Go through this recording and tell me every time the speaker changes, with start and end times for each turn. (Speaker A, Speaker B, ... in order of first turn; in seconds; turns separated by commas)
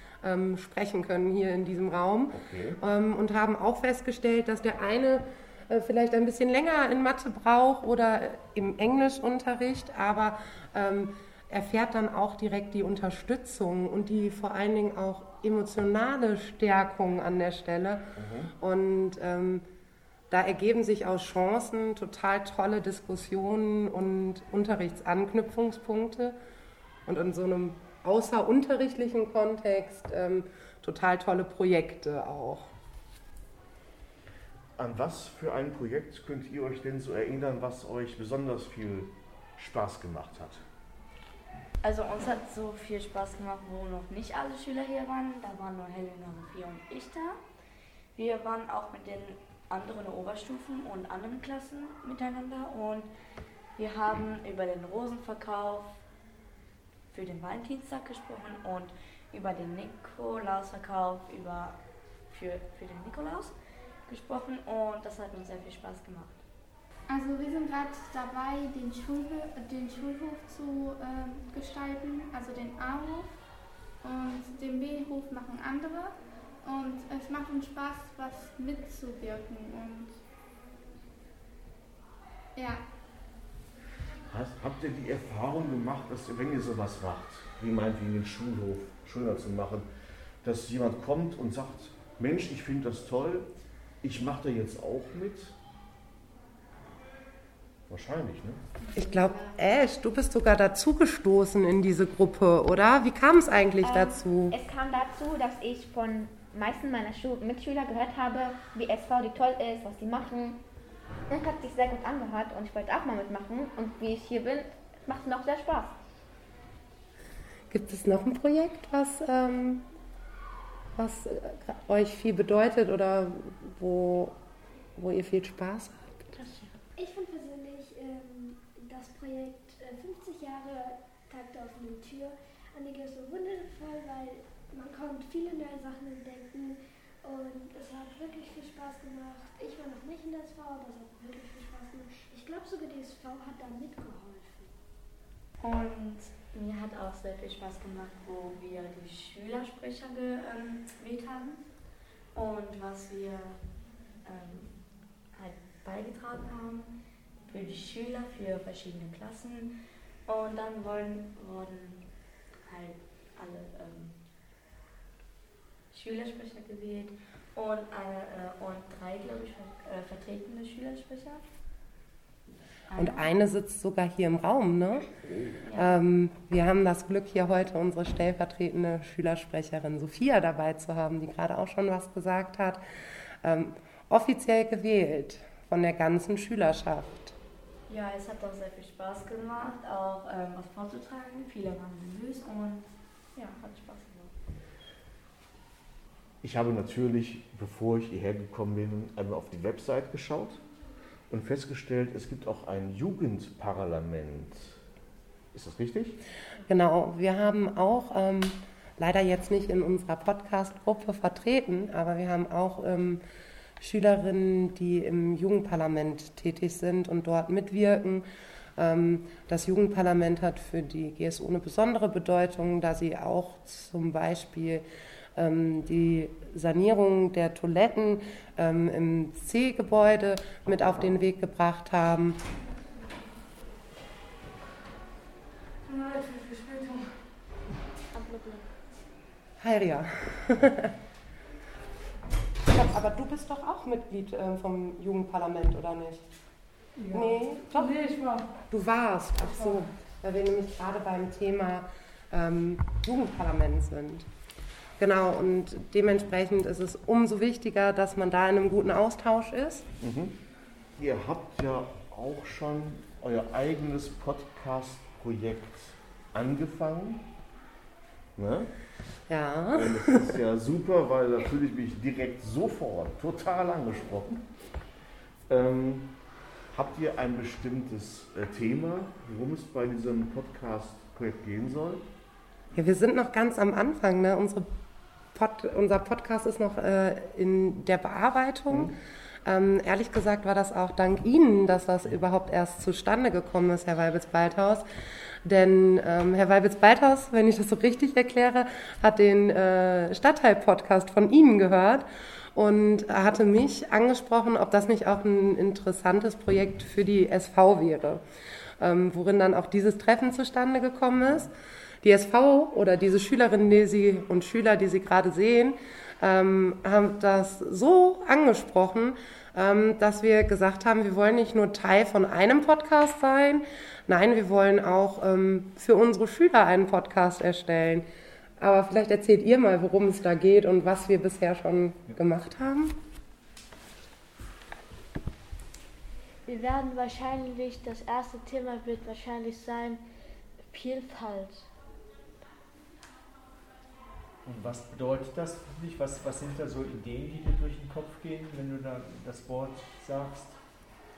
Speaker A: 0.2-19.6, Speaker B: 2.3-2.8, Speaker B: 18.1-18.5, Speaker A: 20.3-26.4, Speaker A: 27.1-32.7, Speaker B: 34.8-40.6, Speaker C: 41.8-47.4, Speaker C: 48.1-53.1, Speaker C: 53.8-56.0, Speaker C: 57.1-61.8, Speaker C: 62.3-63.5, Speaker C: 64.1-66.4, Speaker D: 67.1-73.4, Speaker D: 74.0-80.2, Speaker D: 82.5-82.8, Speaker B: 84.3-89.9, Speaker B: 90.4-93.5, Speaker B: 94.0-95.5, Speaker B: 97.9-98.6, Speaker D: 98.9-99.6, Speaker A: 98.9-104.5, Speaker E: 103.8-110.6, Speaker E: 111.3-115.9, Speaker A: 117.7-119.8, Speaker A: 121.0-124.4, Speaker A: 125.0-126.3, Speaker F: 127.0-144.7, Speaker C: 145.6-151.6, Speaker C: 152.3-153.6, Speaker C: 154.2-156.9, Speaker C: 157.5-159.7, Speaker C: 160.2-162.1, Speaker C: 162.6-164.2, Speaker C: 165.9-171.4, Speaker C: 172.9-173.3, Speaker A: 172.9-175.1, Speaker C: 175.6-175.9, Speaker A: 175.7-182.8, Speaker A: 183.4-187.3, Speaker C: 187.9-194.3, Speaker B: 196.4-200.6, Speaker B: 201.3-204.8, Speaker B: 205.5-206.2, Speaker A: 206.6-213.2, Speaker A: 213.8-218.2, Speaker A: 218.8-232.4, Speaker G: 235.8-237.2, Speaker A: 239.6-240.9, Speaker A: 242.7-246.2, Speaker G: 247.0-248.5, Speaker A: 247.1-248.0, Speaker A: 248.7-254.3, Speaker G: 249.4-249.8, Speaker A: 255.0-259.9, Speaker B: 260.0-260.3, Speaker B: 261.0-267.2, Speaker B: 268.4-268.7, Speaker A: 269.3-270.3, Speaker B: 269.7-274.4, Speaker B: 275.5-276.1, Speaker B: 276.7-282.0, Speaker A: 282.7-284.7, Speaker A: 285.3-288.9, Speaker A: 289.4-294.9, Speaker A: 295.4-308.2, Speaker A: 308.8-328.1, Speaker A: 328.6-332.9, Speaker H: 336.4-340.0, Speaker H: 340.7-341.7, Speaker I: 344.4-350.6